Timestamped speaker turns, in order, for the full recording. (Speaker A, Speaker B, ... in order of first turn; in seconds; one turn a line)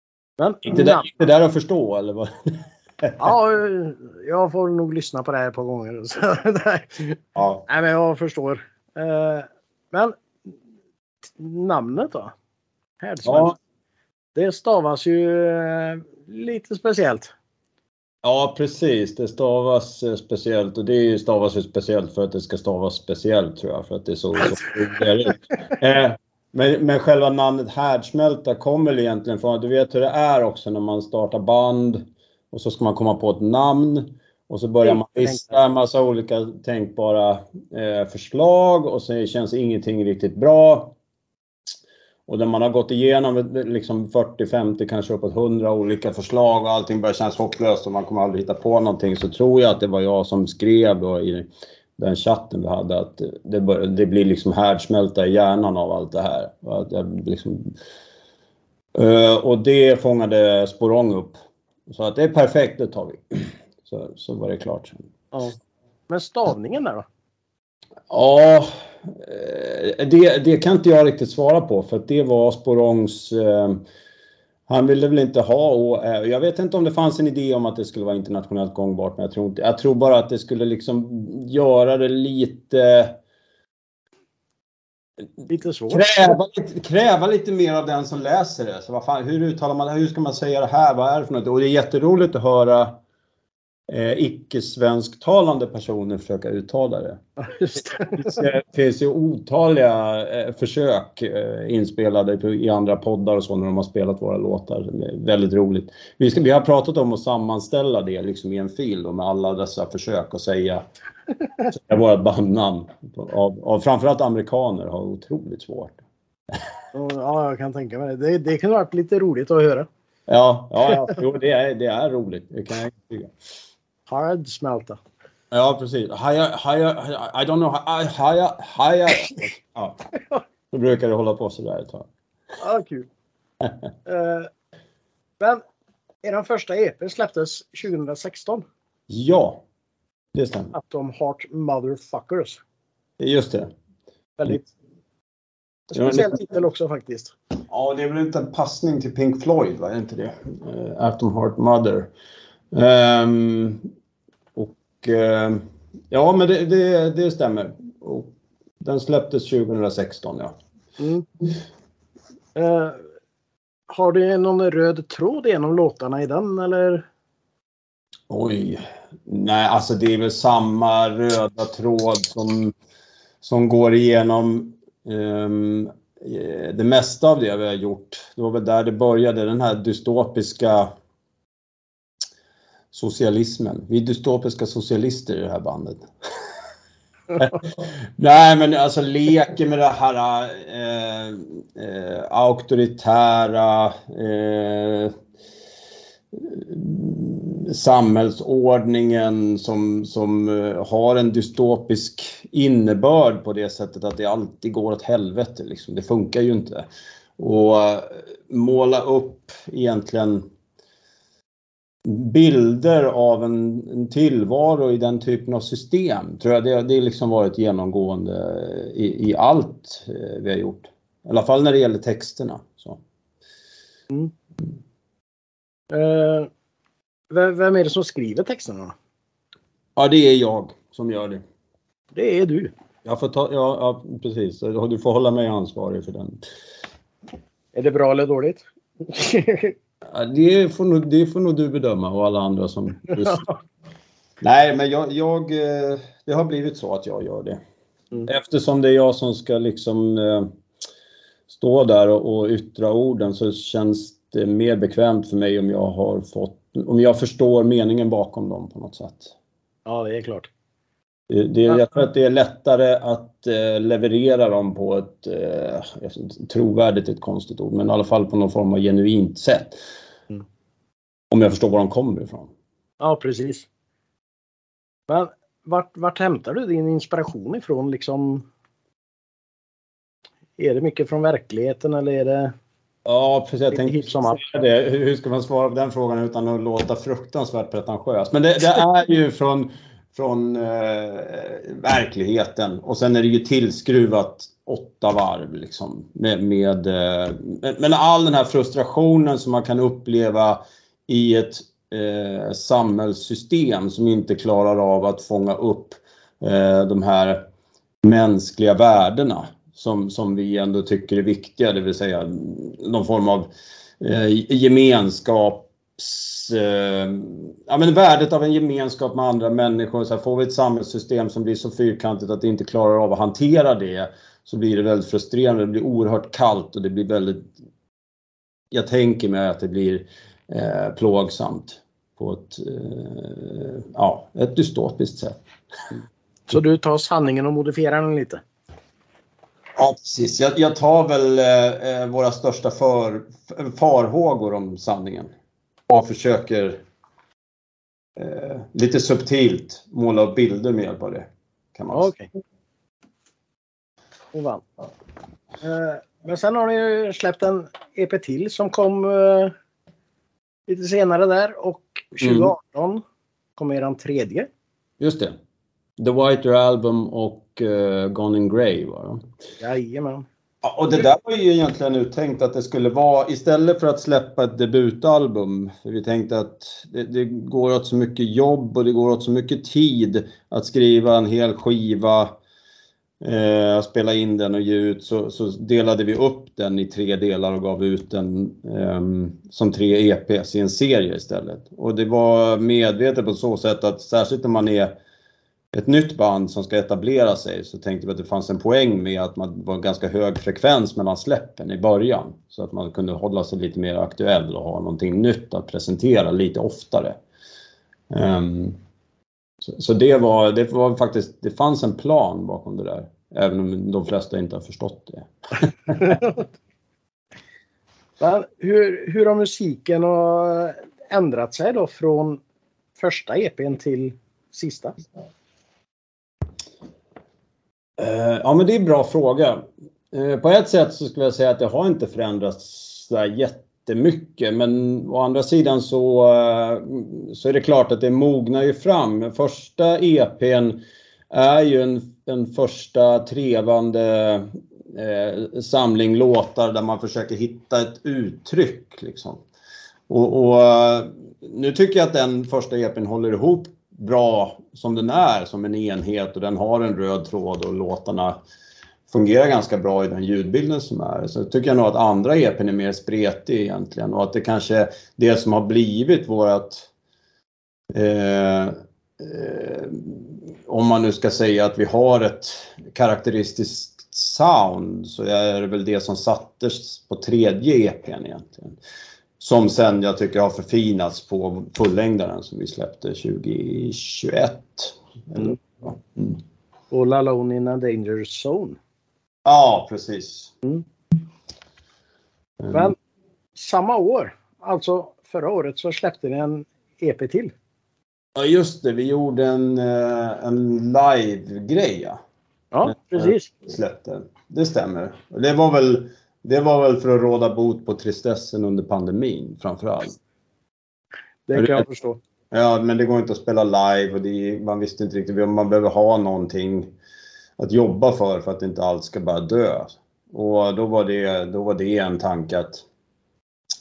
Speaker A: 0.4-1.1
Speaker B: 0.6-2.3
Speaker B: 3.0-3.3
Speaker A: 3.2-10.2
Speaker B: 7.3-7.7
Speaker A: 11.4-12.3
Speaker A: 13.0-13.5
Speaker B: 13.2-13.5
Speaker A: 14.3-17.3
Speaker B: 18.2-40.9
Speaker A: 34.9-35.5
Speaker B: 42.3-57.7
Speaker B: 58.9-65.1
Speaker A: 65.3-65.6
Speaker A: 66.1-67.0
Speaker B: 68.1-73.8
Speaker B: 74.7-83.2
Speaker A: 85.5-86.1
Speaker B: 85.9-93.0
Speaker B: 93.9-97.2
Speaker A: 97.4-98.4
Speaker B: 98.2-110.8
Speaker B: 111.7-116.0
Speaker A: 116.9-119.9
Speaker B: 120.3-123.3
Speaker A: 124.1-125.0
Speaker B: 125.5-130.0
Speaker B: 130.7-132.1
Speaker A: 132.6-133.1
Speaker A: 134.1-134.5
Speaker A: 136.2-138.6
Speaker B: 139.1-139.6
Speaker B: 140.3-140.7
Speaker A: 140.7-142.6
Speaker B: 143.2-143.7
Speaker A: 144.4-144.7
Speaker A: 145.9-147.3
Speaker B: 145.9-146.3
Speaker B: 147.7-152.1
Speaker B: 152.7-153.9
Speaker B: 154.6-160.5
Speaker A: 161.0-161.2
Speaker A: 162.5-163.1
Speaker A: 163.9-167.1
Speaker B: 168.3-172.7
Speaker B: 173.4-180.9
Speaker B: 182.9-186.1
Speaker B: 187.3-195.1
Speaker B: 196.3-206.8
Speaker B: 207.4-210.4
Speaker B: 212.0-223.0
Speaker A: 225.9-226.5
Speaker A: 227.3-228.9
Speaker B: 229.9-231.4
Speaker A: 232.1-232.7
Speaker B: 233.0-236.4
Speaker A: 237.7-239.7
Speaker B: 240.1-243.4
Speaker B: 244.4-247.6
Speaker B: 248.2-250.5
Speaker B: 251.5-259.3
Speaker A: 259.9-260.5
Speaker B: 261.3-269.8
Speaker B: 271.3-272.5
Speaker A: 273.0-273.7
Speaker A: 275.1-278.4
Speaker A: 280.6-282.5
Speaker B: 283.1-307.4
Speaker A: 283.7-284.4
Speaker B: 308.0-327.5
Speaker B: 328.7-335.4
Speaker A: 336.5-338.4
Speaker B: 339.8-345.3
Speaker B: 345.9-346.8
Speaker B: 348.2-352.1
Speaker A: 351.9-352.3
Speaker A: 354.3-354.6
Speaker A: 355.6-359.5
Speaker A: 360.7-363.0
Speaker B: 362.2-362.5
Speaker A: 363.6-364.5
Speaker B: 365.0-365.3
Speaker B: 366.0-369.2
Speaker A: 369.6-370.2
Speaker B: 370.6-382.4
Speaker B: 383.2-394.9
Speaker B: 395.7-407.2
Speaker B: 408.1-408.8
Speaker B: 409.6-416.2
Speaker A: 416.1-416.4
Speaker A: 418.2-422.4
Speaker A: 423.0-424.9
Speaker B: 428.0-449.4
Speaker B: 450.1-458.4
Speaker B: 459.1-466.9
Speaker B: 467.9-478.8
Speaker B: 479.4-486.4
Speaker A: 486.9-488.8
Speaker B: 489.4-490.5
Speaker A: 492.7-492.9
Speaker A: 493.6-497.5
Speaker B: 498.4-502.2
Speaker A: 502.7-503.5
Speaker B: 502.8-510.2
Speaker A: 511.5-512.2
Speaker B: 511.5-511.8
Speaker B: 512.5-516.9
Speaker B: 517.6-522.8